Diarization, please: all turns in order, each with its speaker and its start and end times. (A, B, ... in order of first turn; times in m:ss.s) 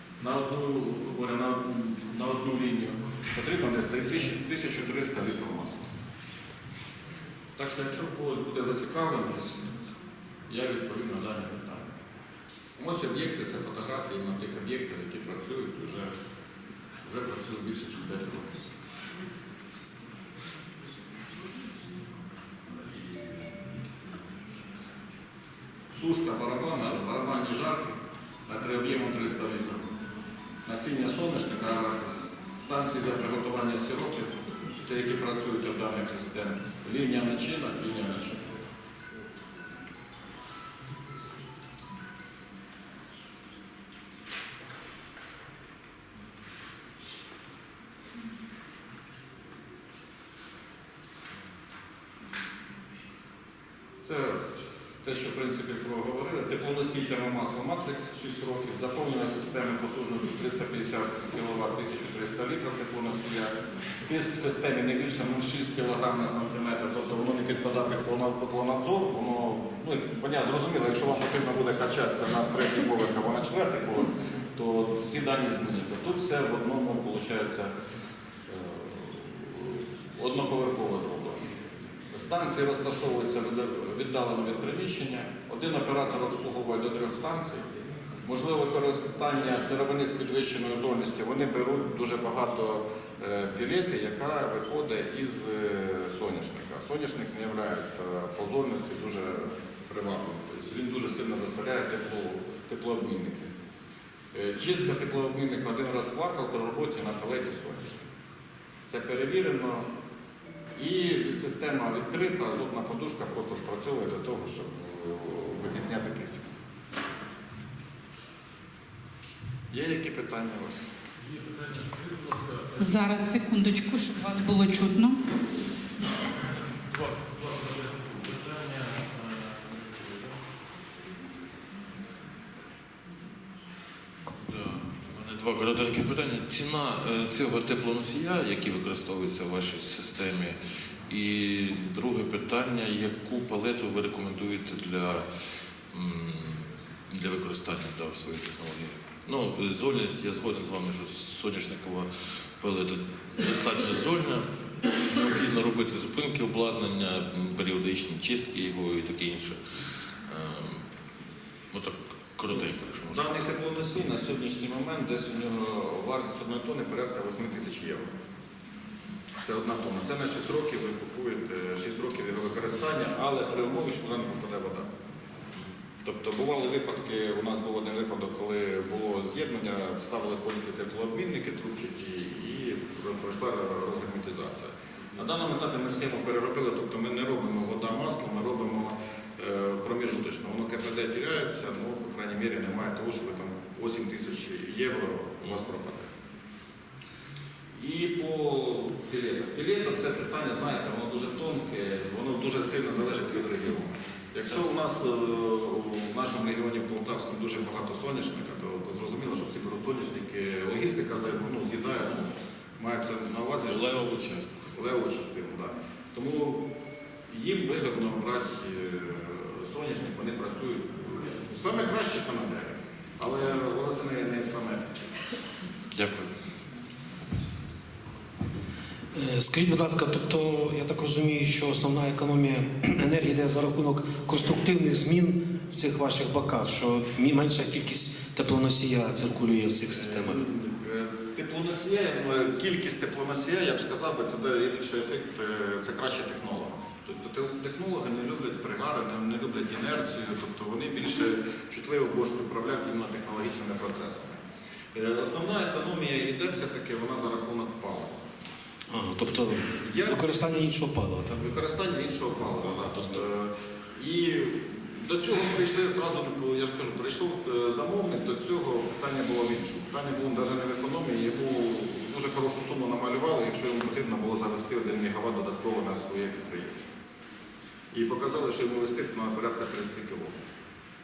0:00.2-0:05.9 A
0:07.6-0:09.6 A
0:10.5-0:11.9 A
0:12.8-0:16.1 A
0:17.0-0:18.7 A
0:25.9-0:29.9 A
0:30.6-0:38.5 A
0:54.0-0:54.5 A
0:55.0-1:17.7 A
1:18.5-1:21.4 A
1:22.1-1:27.7 A
1:28.2-1:43.5 A
1:44.3-1:48.0 A
1:48.9-1:49.9 A
1:50.8-1:56.5 A
1:59.7-2:00.9 A
2:01.3-2:02.9 B
2:02.8-2:05.2 C
2:06.9-2:10.4 B
2:14.5-2:20.6 B
2:21.1-2:25.2 B
2:25.9-2:39.6 B
2:40.3-2:40.8 B
2:41.7-2:43.3 B
2:42.5-2:48.1 A
2:49.4-2:54.9 A
2:56.0-3:16.1 A
3:17.8-3:33.8 A
3:33.6-3:34.6 B
3:34.7-3:36.7 A
3:37.3-3:45.1 A
3:45.9-3:46.3 B
3:49.1-4:00.4 D
3:59.9-4:14.4 A
4:14.9-4:18.2 A
4:18.9-4:21.4 D
4:19.8-4:20.4 A
4:21.3-4:36.9 A
4:37.9-4:40.4 A